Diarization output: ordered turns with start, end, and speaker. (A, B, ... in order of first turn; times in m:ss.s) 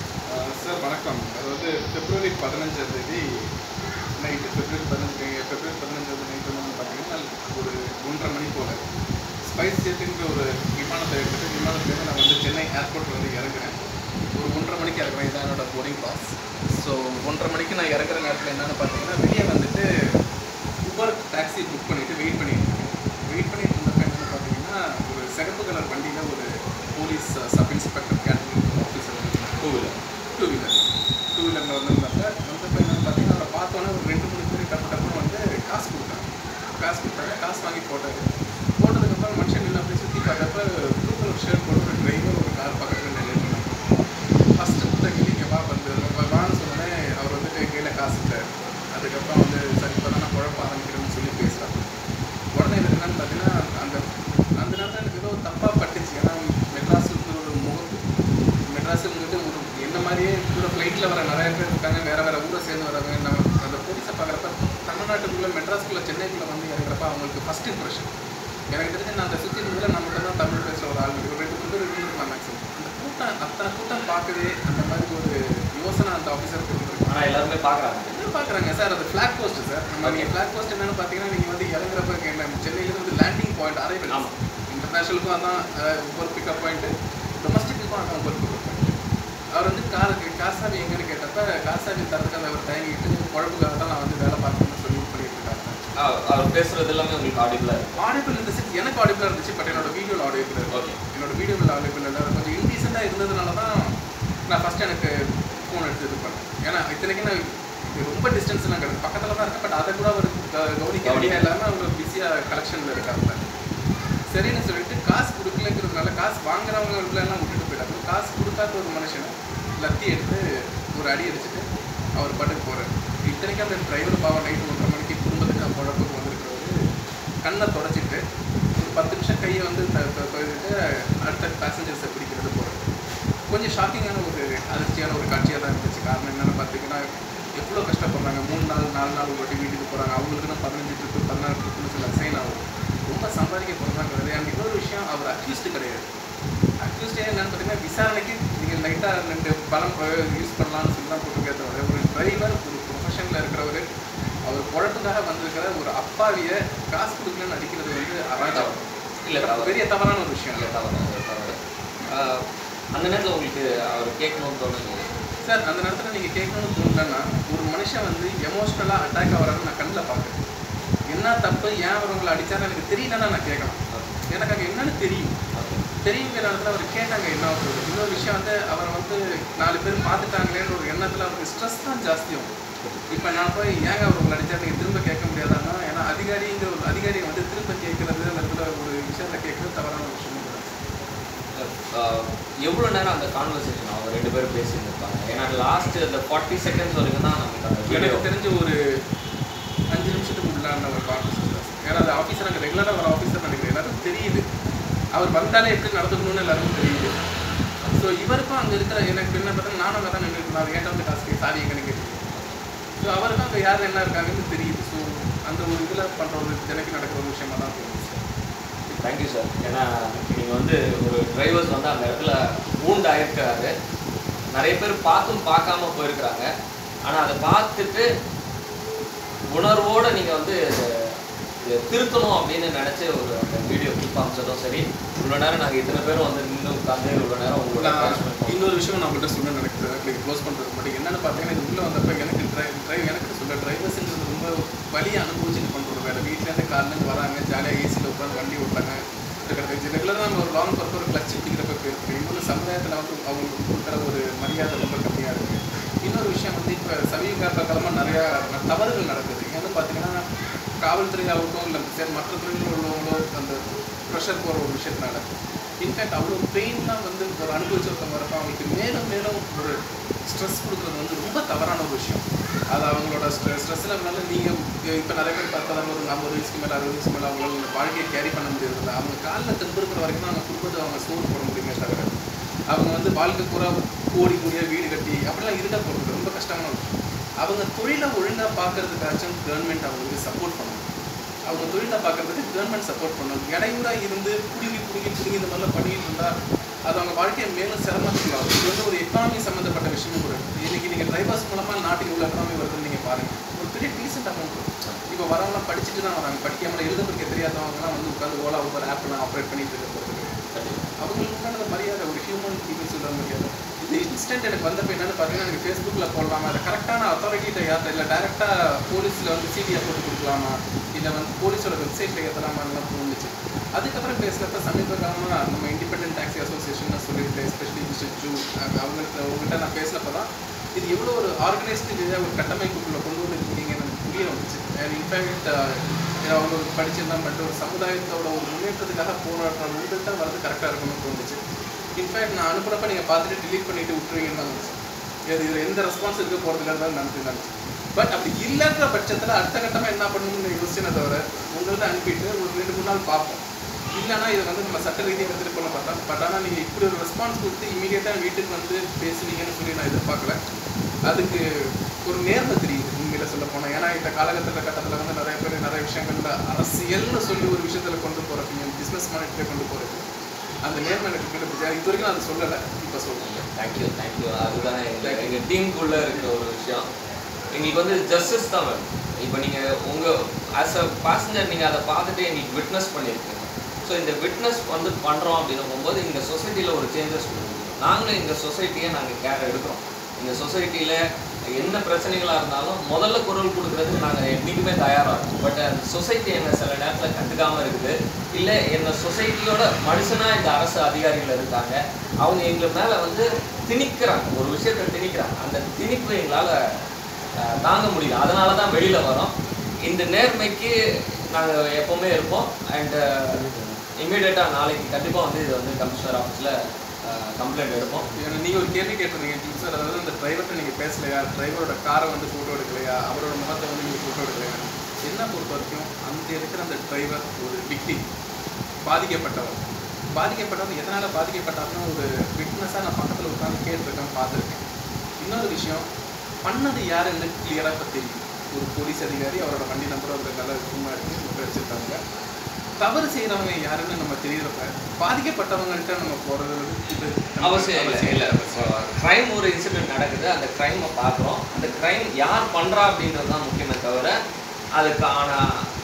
0:00.3-0:03.2 A
0:04.2-0:08.8 A
0:09.5-0:13.7 A
0:14.4-0:19.8 A
0:20.8-0:29.6 A
0:29.6-0:29.9 B
0:30.4-0:30.8 A
0:31.3-0:36.3 A
0:36.8-0:38.2 A
0:38.8-0:43.9 A
0:44.6-0:48.4 A
0:48.9-0:51.9 A
0:52.6-0:54.0 A
0:54.6-0:58.0 A
0:58.7-1:08.1 A
1:08.7-1:17.2 A
1:17.1-1:18.2 B
1:18.1-1:29.0 A
1:20.0-1:20.3 B
1:24.1-1:24.3 B
1:29.6-1:35.8 A
1:36.0-1:37.9 B
1:38.0-1:43.7 A
1:40.7-1:41.0 B
1:44.5-1:45.1 A
1:45.7-1:53.4 A
1:51.0-1:51.4 B
1:54.3-2:00.4 A
2:01.0-2:01.6 A
2:02.2-2:06.7 A
2:07.4-2:08.2 A
2:08.8-2:12.8 A
2:13.5-2:17.0 A
2:17.6-2:26.1 A
2:26.8-2:33.8 A
2:34.5-2:38.8 A
2:38.5-2:39.8 B
2:39.4-2:40.6 A
2:40.5-2:41.6 B
2:42.1-2:42.4 B
2:43.0-2:45.0 B
2:45.4-2:50.4 A
2:51.1-2:53.8 A
2:53.9-2:54.2 B
2:54.3-2:55.4 A
2:55.5-2:55.8 B
2:56.0-3:02.5 A
3:02.8-3:03.1 B
3:03.1-3:10.7 A
3:11.6-3:18.2 B
3:17.9-3:18.8 A
3:19.9-3:24.4 A
3:25.2-3:27.1 A
3:27.8-3:32.2 A
3:33.0-3:38.2 A
3:38.9-3:43.7 B
3:44.5-3:46.5 B
3:47.0-3:48.1 B
3:49.5-3:58.7 B
3:57.8-4:20.2 A
4:20.8-4:25.2 A
4:25.8-4:29.8 A
4:30.3-4:42.1 A
4:42.7-4:46.9 A
4:47.4-4:50.8 A
4:51.5-4:56.3 A
4:51.5-4:51.8 B
4:56.9-5:10.3 A
5:10.5-5:10.8 B
5:11.0-5:41.4 A
5:42.0-5:44.8 A
5:45.3-5:53.4 A
5:54.0-6:00.4 A
6:01.1-6:01.4 A
6:02.0-6:10.1 A
6:10.6-6:13.3 A
6:13.2-6:16.8 B
6:15.0-6:15.3 A
6:15.9-6:16.3 A
6:17.5-6:31.0 B
6:31.5-6:46.6 B
6:47.4-6:50.7 B
6:51.3-6:56.5 B
6:57.0-6:58.1 B
6:58.2-7:08.0 A
7:08.9-7:14.6 A
7:15.2-7:15.8 A
7:16.4-7:22.0 A
7:22.8-7:28.7 A
7:27.4-7:34.2 B
7:34.8-7:35.6 B